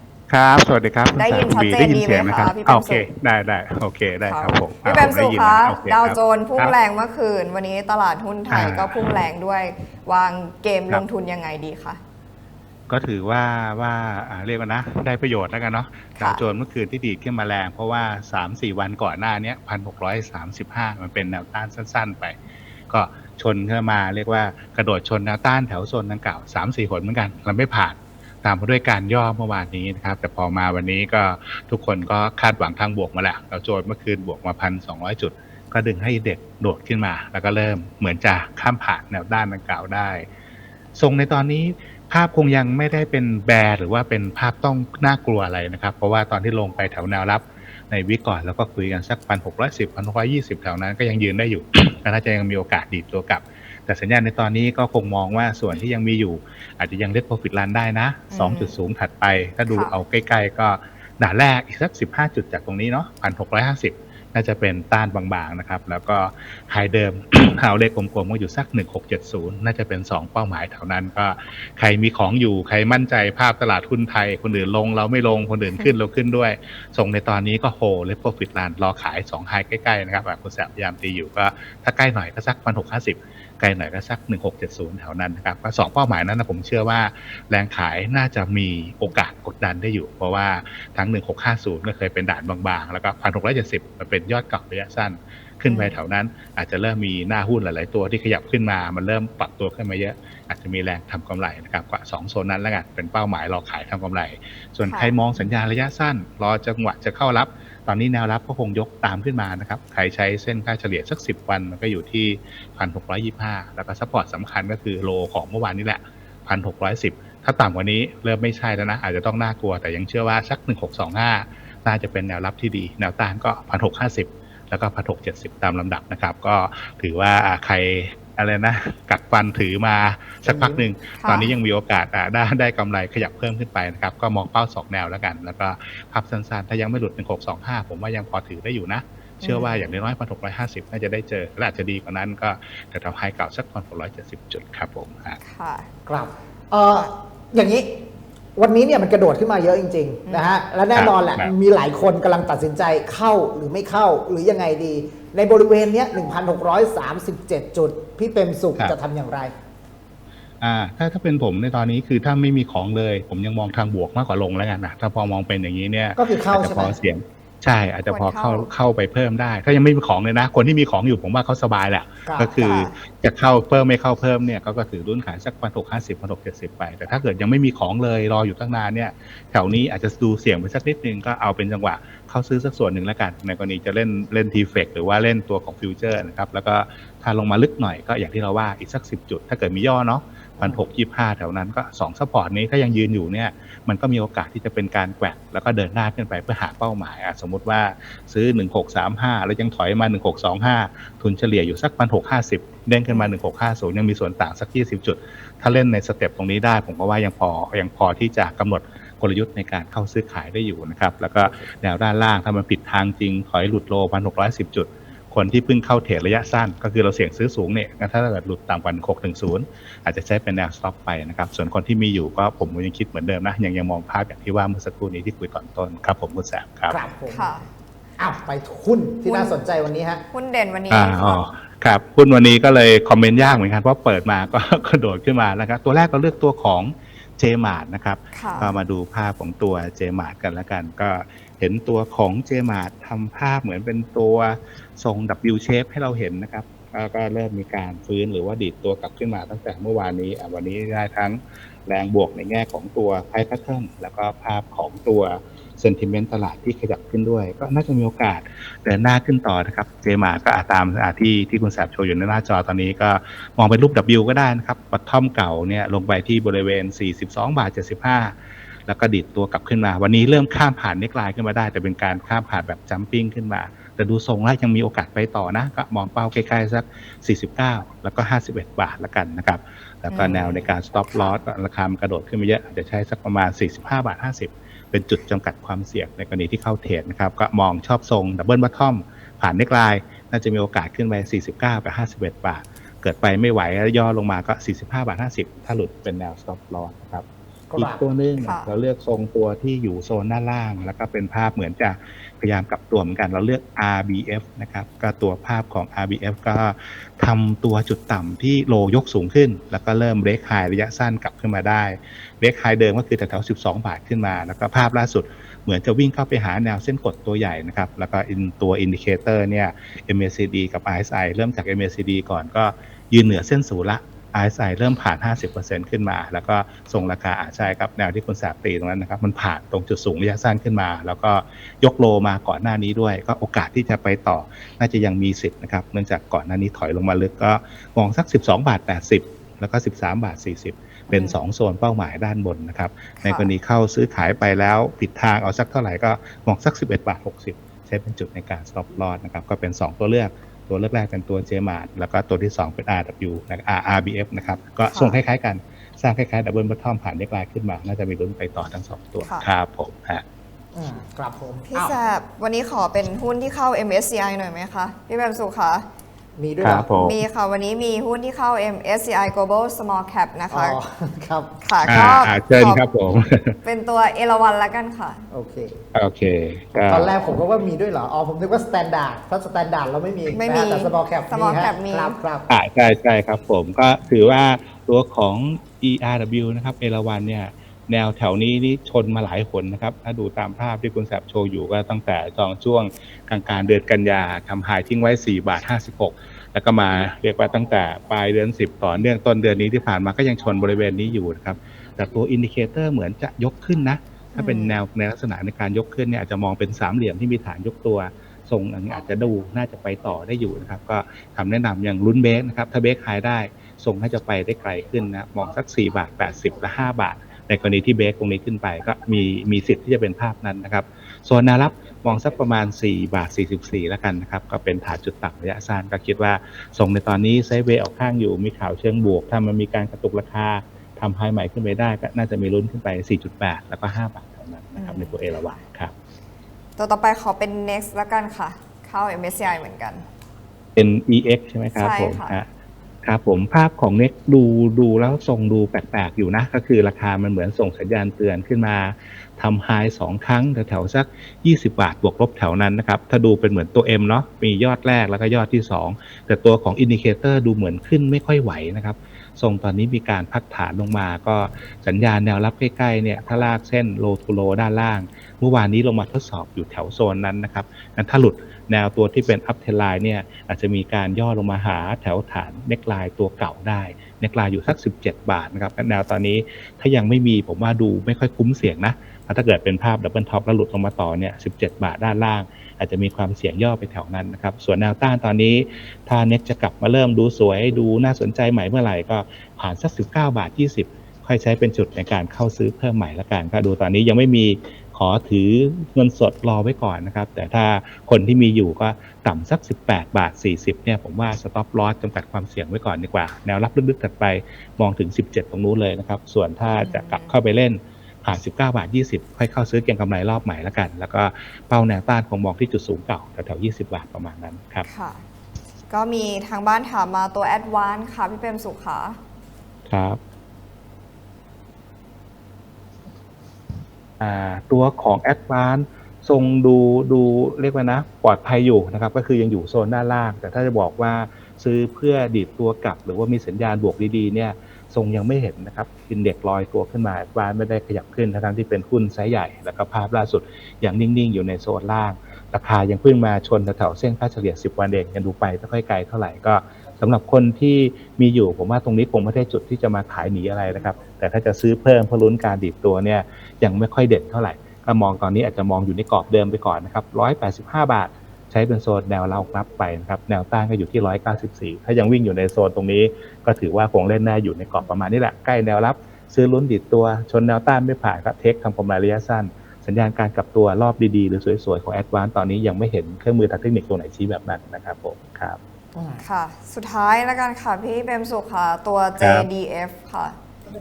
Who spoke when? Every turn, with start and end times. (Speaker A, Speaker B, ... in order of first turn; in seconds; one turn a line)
Speaker A: 0.3-6.8
Speaker B: 1.2-3.0
Speaker B: 4.3-12.0
Speaker A: 8.5-9.1
Speaker A: 12.9-22.4
Speaker B: 16.2-16.4
Speaker A: 22.9-40.3
Speaker A: 41.0-145.4
Speaker B: 58.3-58.8
Speaker B: 59.7-60.0
Speaker B: 75.7-76.0
Speaker B: 95.7-96.0
Speaker B: 104.8-105.2
Speaker C: 130.4-130.9
Speaker B: 131.2-131.5
Speaker B: 139.4-139.9
Speaker B: 145.4-145.9
Speaker C: 146.1-148.0
Speaker C: 148.6-159.5
Speaker B: 150.3-150.6
Speaker A: 150.9-151.5
Speaker A: 160.6-227.0
Speaker C: 166.2-167.0
Speaker B: 168.1-168.7
Speaker C: 172.3-172.8
Speaker B: 172.6-172.9
Speaker B: 203.1-203.4
Speaker C: 226.9-227.5
Speaker B: 227.3-227.7
Speaker C: 228.2-230.2
Speaker B: 229.3-229.6
Speaker B: 230.3-231.4
Speaker A: 230.9-268.4
Speaker B: 238.3-238.7
Speaker A: 268.9-297.2
Speaker B: 280.1-281.4
Speaker C: 297.7-298.0
Speaker A: 297.8-360.2
Speaker B: 298.4-298.7
Speaker B: 341.1-341.4
Speaker B: 343.2-343.5
Speaker B: 354.9-355.2
Speaker B: 359.2-359.5
Speaker C: 360.7-361.9
Speaker B: 361.7-365.9
Speaker C: 366.4-366.9
Speaker A: 366.6-367.2
Speaker B: 367.0-370.8
Speaker C: 370.5-371.5
Speaker B: 371.6-372.8
Speaker A: 371.9-373.6
Speaker B: 373.6-375.2
Speaker C: 375.3-375.8
Speaker A: 375.9-377.1
Speaker C: 376.9-382.5
Speaker B: 380.3-382.2
Speaker A: 382.5-435.9
Speaker B: 404.4-404.8
Speaker B: 434.8-435.6
Speaker B: 436.8-440.0
Speaker A: 440.8-442.5
Speaker B: 441.8-442.4
Speaker A: 443.0-514.9
Speaker B: 506.8-507.4
Speaker B: 514.9-515.2
Speaker B: 515.9-519.2
Speaker A: 519.9-520.2
Speaker A: 524.2-575.6
Speaker C: 576.0-576.2
Speaker B: 576.2-580.4
Speaker A: 579.2-579.5